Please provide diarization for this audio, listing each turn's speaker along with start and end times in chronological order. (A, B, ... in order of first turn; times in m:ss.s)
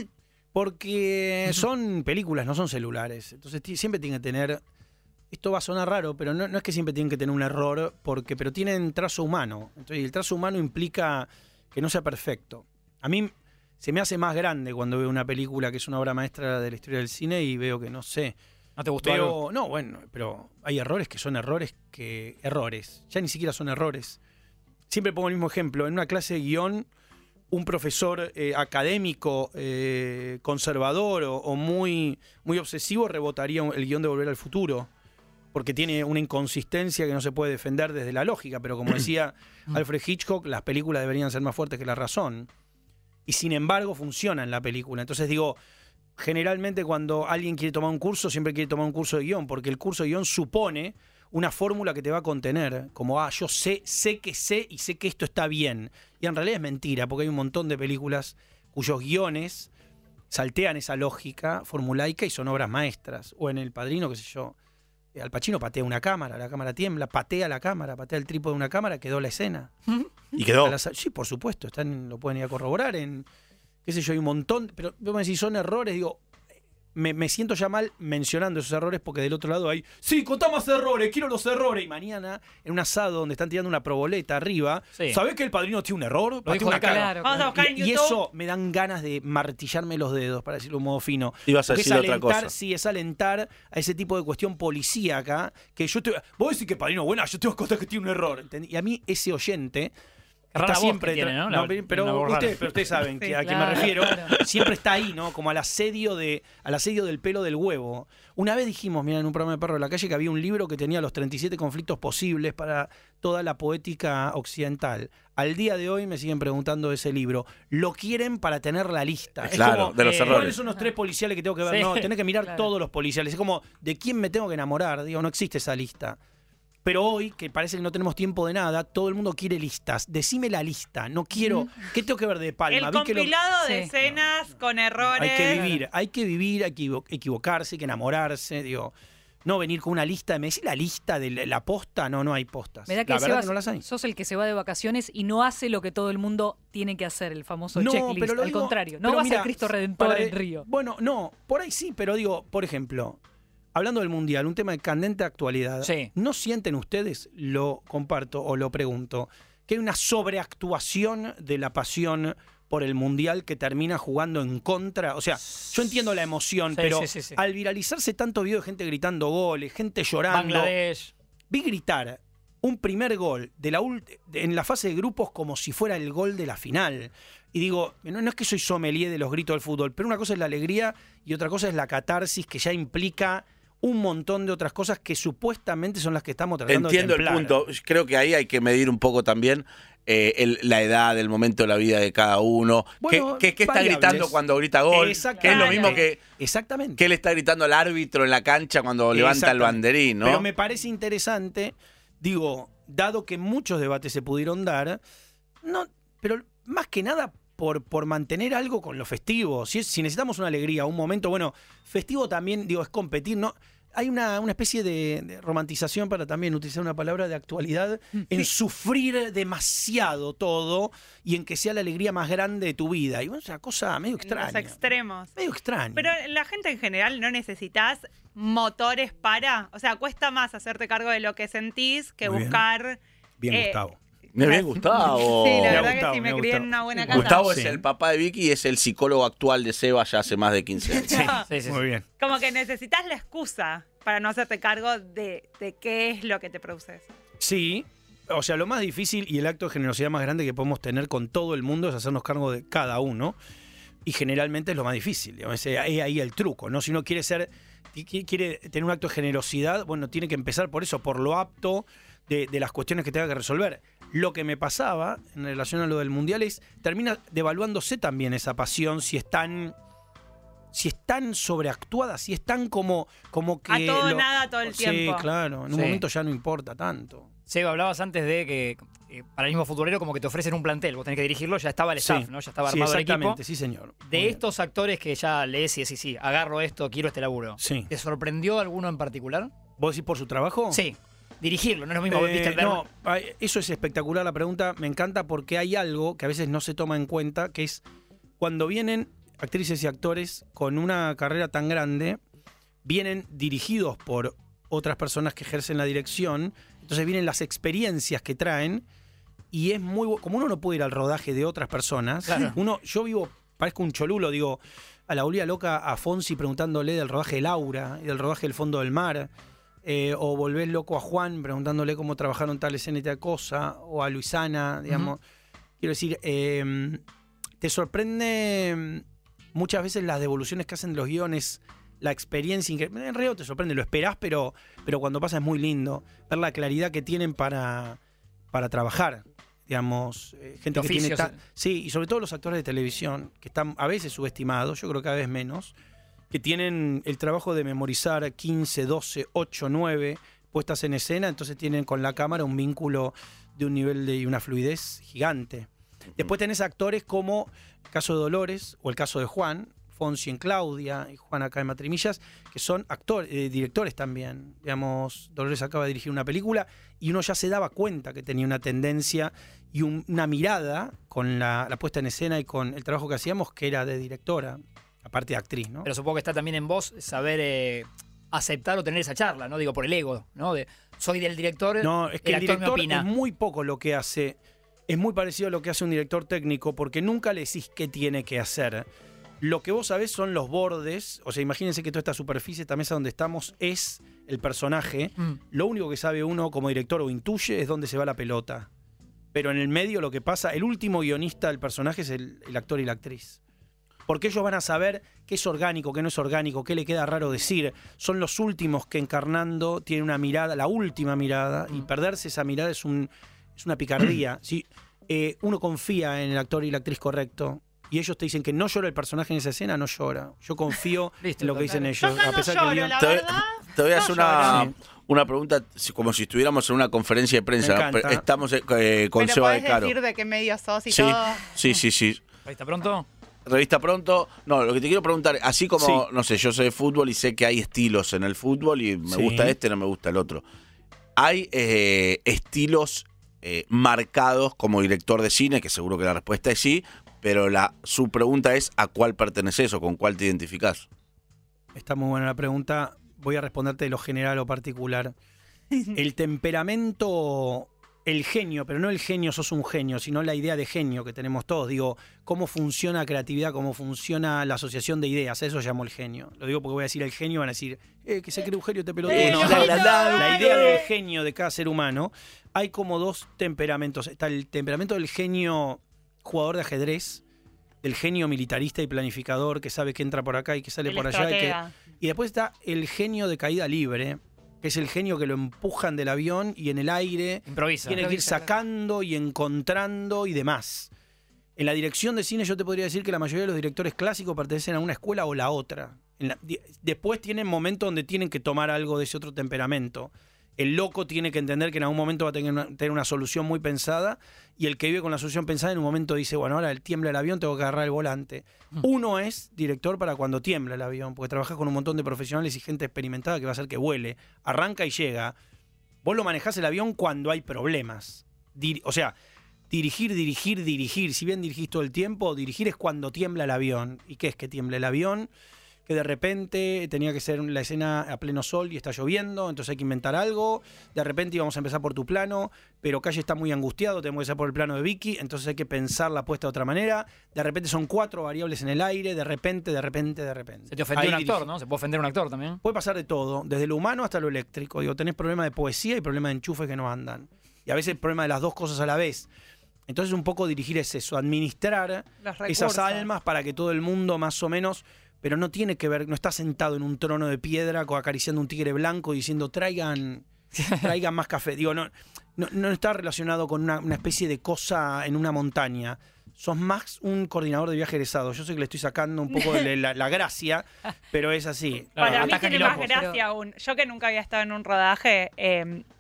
0:00.5-0:04.6 A
0:05.3-0:18.4 A
0:18.8-0:19.4 B
0:19.0-0:24.2 A
0:24.9-0:26.9 A
0:27.5-0:34.9 A
0:35.5-0:42.5 A
0:43.2-0:45.6 A
0:46.2-0:59.7 A
1:00.3-1:04.6 A
1:05.1-1:09.7 A
1:10.4-1:10.8 C
1:10.6-1:13.3 A
1:13.8-1:16.2 A
1:16.9-1:39.9 A
1:26.4-1:27.1 B
1:26.8-1:27.4 D
1:27.2-1:28.2 E
1:31.5-1:32.5 C
1:40.5-1:42.7 B
1:40.6-2:06.2 A
1:43.2-1:43.4 E
1:43.4-1:44.3 D
1:59.4-2:00.6 C
2:00.0-2:00.5 B
2:01.7-2:02.1 B
2:06.8-2:13.3 A
2:11.4-2:11.7 D
2:12.7-2:15.6 E
2:13.6-2:13.9 D
2:15.1-2:18.9 A
2:19.4-2:23.8 A
2:22.9-2:30.7 D
2:27.7-2:33.2 A
2:33.7-2:50.7 A
2:35.8-2:36.1 B
2:46.7-2:47.4 B
2:50.3-2:51.1 B
2:51.5-3:07.6 A
3:06.7-3:16.2 C
3:13.0-3:14.4 A
3:14.9-3:17.0 A
3:15.4-3:16.0 E
3:17.0-3:20.4 C
3:19.1-3:25.0 A
3:25.6-3:44.8 A
3:44.2-3:45.3 E
3:45.4-3:46.1 A
3:45.9-3:53.8 E
3:52.2-3:52.6 A
3:53.4-3:54.0 A
3:54.3-3:55.9 C
3:54.4-3:57.4 E
3:55.6-3:57.8 A
3:57.1-4:01.2 C
4:00.9-4:01.4 E
4:01.1-4:01.8 B
4:01.6-4:02.0 A
4:02.2-4:07.1 E
4:07.4-4:13.4 A
4:14.0-4:29.7 A
4:30.7-4:37.3 A
4:33.7-4:35.2 E
4:35.7-4:36.0 B
4:37.5-4:43.4 B
4:42.0-4:44.4 A
4:44.1-4:49.5 B
4:47.6-4:47.9 A
4:49.8-4:50.8 A
4:50.7-4:52.8 B
4:52.1-4:57.8 A
4:58.4-5:02.2 A
5:02.8-5:08.8 A
5:09.5-5:19.3 A
5:12.3-5:12.5 B
5:19.8-5:25.2 A
5:25.8-5:27.0 A
5:27.6-5:38.0 A
5:38.5-5:45.7 A
5:40.7-5:41.4 B
5:46.3-6:15.9 A
6:15.8-6:23.1 B
6:21.8-6:28.9 A
6:29.4-6:38.7 A
6:39.3-6:43.4 A
6:44.1-7:03.0 A
7:01.2-7:01.9 B
7:02.0-7:04.6 E
7:03.0-7:09.9 C
7:04.4-7:04.7 A
7:07.6-7:08.2 A
7:09.2-7:11.5 E
7:10.9-7:12.2 C
7:12.4-7:13.1 B
7:13.4-7:20.4 C
7:15.8-7:16.0 A
7:19.1-7:19.6 A
7:21.2-7:30.9 C
7:31.7-7:35.1 A
7:35.9-7:57.2 A
7:49.1-7:50.8 C
7:49.4-7:49.6 B
7:49.5-7:50.2 E
7:57.8-8:10.9 A
8:00.9-8:01.7 E
8:07.5-8:08.0 B
8:08.0-8:08.5 D
8:11.6-8:35.4 A
8:36.0-8:39.2 A
8:39.7-8:45.3 A
8:45.9-9:01.5 A
9:00.7-9:02.6 B
9:02.6-9:09.3 A
9:09.9-9:32.3 A
9:12.2-9:13.0 E
9:20.6-9:20.9 B
9:32.0-9:33.0 B
9:32.0-9:35.8 E
9:32.2-9:33.2 D